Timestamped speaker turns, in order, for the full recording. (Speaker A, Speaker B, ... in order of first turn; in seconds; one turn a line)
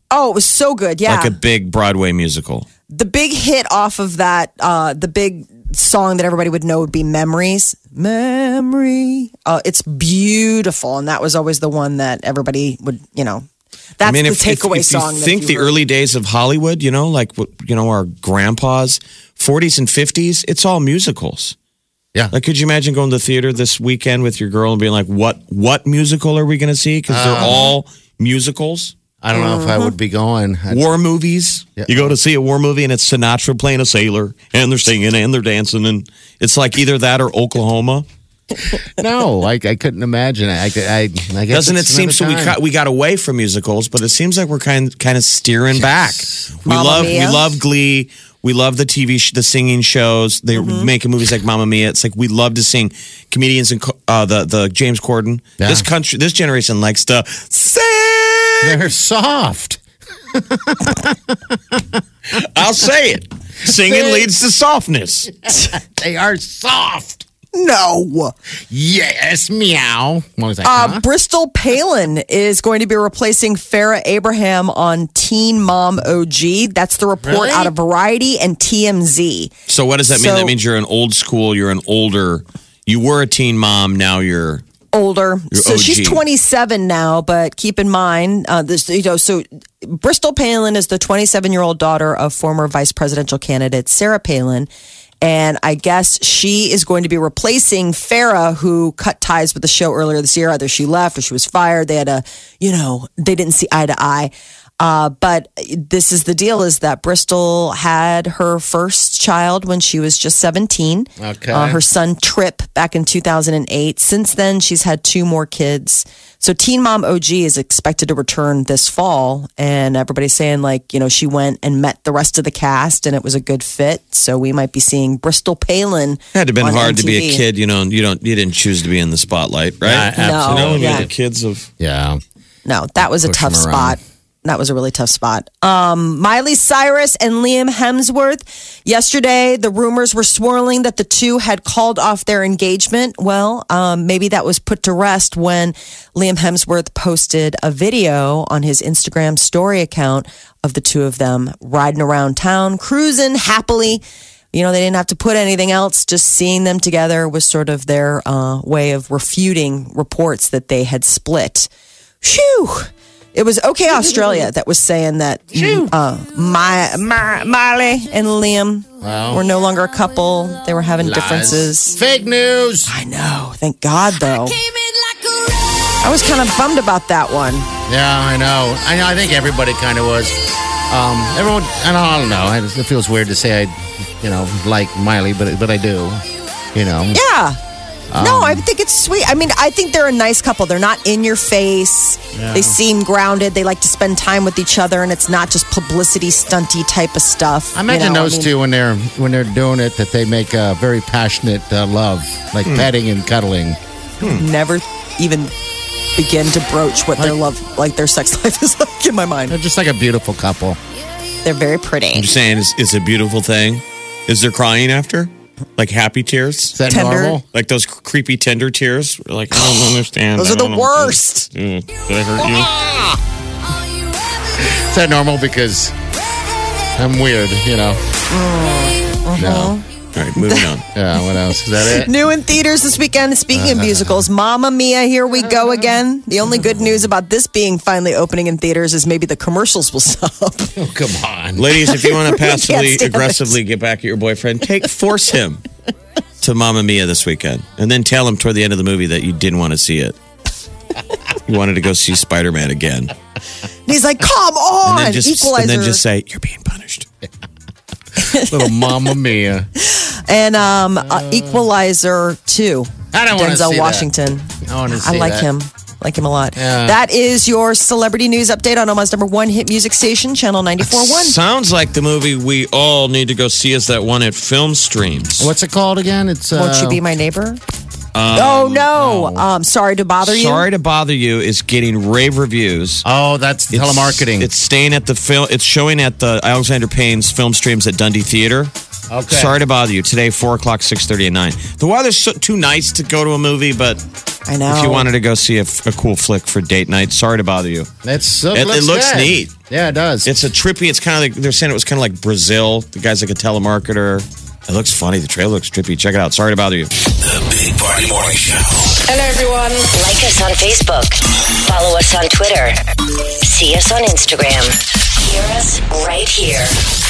Speaker A: 0.1-1.4
Speaker B: 1.1-2.7
Speaker A: 2.9-13.5
Speaker A: 14.0-15.7
Speaker B: 14.0-21.6
Speaker B: 22.3-28.9
Speaker C: 27.1-27.7
Speaker C: 29.2-30.9
Speaker A: 29.3-29.9
Speaker B: 30.7-38.1
Speaker C: 31.8-32.1
Speaker C: 38.8-42.6
Speaker B: 41.5-58.8
Speaker C: 45.7-47.1
Speaker A: 46.6-47.5
Speaker A: 50.5-50.9
Speaker C: 55.6-55.9
Speaker C: 58.6-59.8
Speaker C: 60.3-62.0
Speaker B: 62.3-65.3
Speaker C: 63.7-64.3
Speaker C: 65.3-67.3
Speaker A: 67.5-68.3
Speaker C: 68.7-71.0
Speaker A: 70.6-79.5
Speaker C: 77.2-77.7
Speaker B: 79.7-84.6
Speaker A: 80.1-80.5
Speaker A: 84.9-94.7
Speaker B: 85.5-86.2
Speaker A: 95.2-127.4
Speaker C: 111.2-111.8
Speaker B: 126.3-131.7
Speaker C: 129.8-131.1
Speaker A: 130.2-131.1
Speaker C: 131.8-132.2
Speaker A: 132.7-154.0
Speaker C: 133.0-134.0
Speaker A: 154.5-161.7
Speaker A: 162.2-172.0
Speaker C: 164.0-164.4
Speaker C: 165.5-165.9
Speaker C: 169.0-169.4
Speaker C: 171.0-172.9
Speaker A: 172.9-174.6
Speaker A: 176.0-177.7
Speaker C: 177.9-186.2
Speaker C: 186.7-187.2
Speaker A: 187.1-187.6
Speaker C: 188.1-188.7
Speaker A: 188.2-198.5
Speaker C: 192.3-192.8
Speaker C: 197.8-203.8
Speaker A: 204.2-205.5
Speaker A: 206.2-209.6
Speaker C: 209.5-210.8
Speaker A: 211.4-212.3
Speaker B: 212.1-216.8
Speaker C: 216.7-217.4
Speaker A: 216.9-217.4
Speaker B: 217.5-222.7
Speaker A: 220.4-221.5
Speaker C: 224.6-225.9
Speaker C: 226.9-228.0
Speaker A: 228.3-229.8
Speaker C: 229.4-229.8
Speaker B: 230.2-230.8
Speaker A: 230.4-230.7
Speaker C: 230.9-232.1
Speaker A: 231.9-240.8
Speaker C: 233.5-234.3
Speaker C: 240.8-241.7
Speaker B: 241.6-245.6
Speaker A: 241.9-243.6
Speaker B: 246.4-250.2
Speaker B: 251.5-253.1
Speaker A: 253.9-256.0
Speaker B: 254.9-257.1
Speaker A: 258.2-258.7
Speaker C: 258.2-259.7
Speaker A: 259.8-271.4
Speaker C: 261.1-261.6
Speaker C: 263.1-264.1
Speaker C: 264.6-265.5
Speaker C: 266.6-267.0
Speaker B: 270.8-275.5
Speaker C: 275.4-277.0
Speaker A: 276.5-277.6
Speaker B: 278.1-278.9
Speaker A: 278.3-280.6
Speaker C: 278.9-279.4
Speaker B: 280.2-283.1
Speaker C: 283.0-284.5
Speaker B: 283.7-288.7
Speaker C: 289.1-289.6
Speaker B: 289.3-294.0
Speaker A: 294.5-295.1
Speaker B: 294.7-297.9
Speaker C: 298.0-300.4
Speaker B: 298.5-299.5
Speaker B: 300.2-306.9
Speaker D: 307.2-309.6
Speaker E: 309.2-316.9